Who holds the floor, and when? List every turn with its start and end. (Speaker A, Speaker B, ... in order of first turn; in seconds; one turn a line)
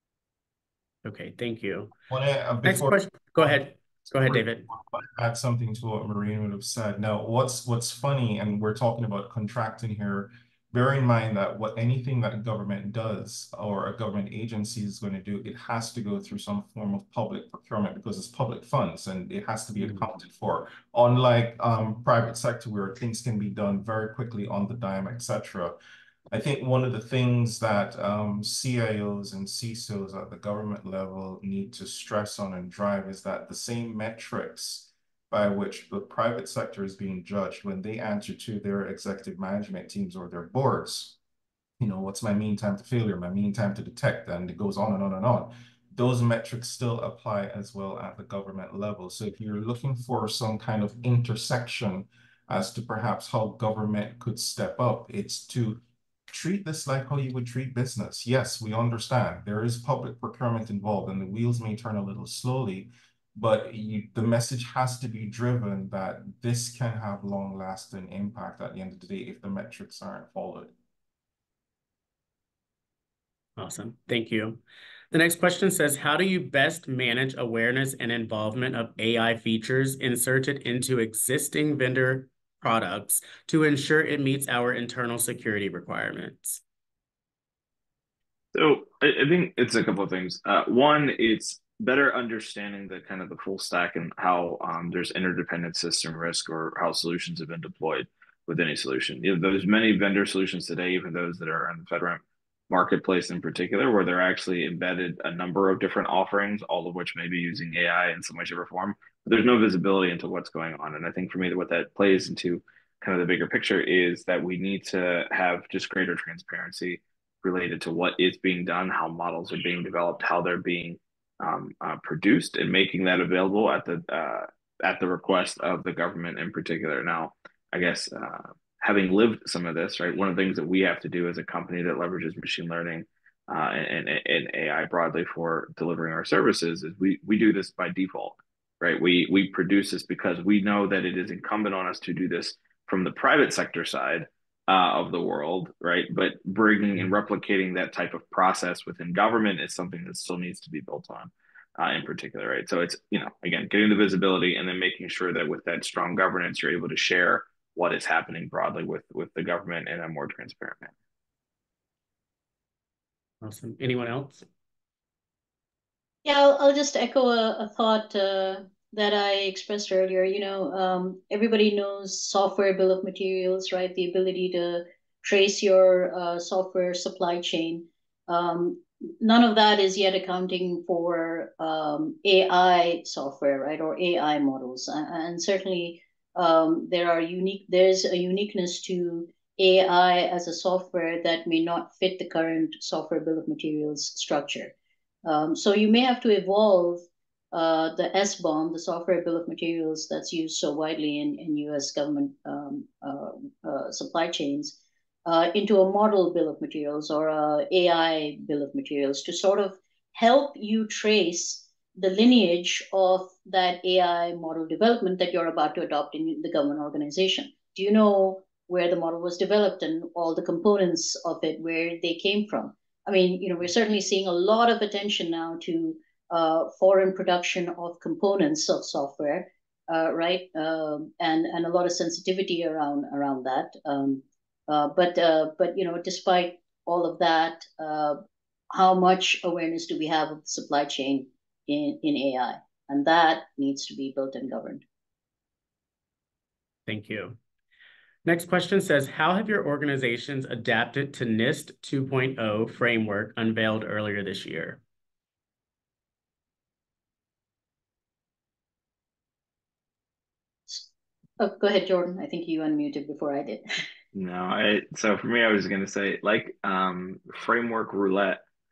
Speaker A: 1.0-1.9
Speaker B: 2.1-3.6
Speaker A: 2.6-4.7
Speaker B: 4.3-25.8
Speaker B: 26.3-41.2
Speaker B: 41.8-70.7
Speaker A: 73.6-86.6
Speaker C: 88.5-160.9
Speaker A: 163.4-164.4
Speaker D: 166.2-238.2
Speaker D: 238.7-244.8
Speaker A: 246.9-247.4
Speaker A: 248.2-254.8
Speaker D: 261.4-263.6
Speaker C: 264.1-268.4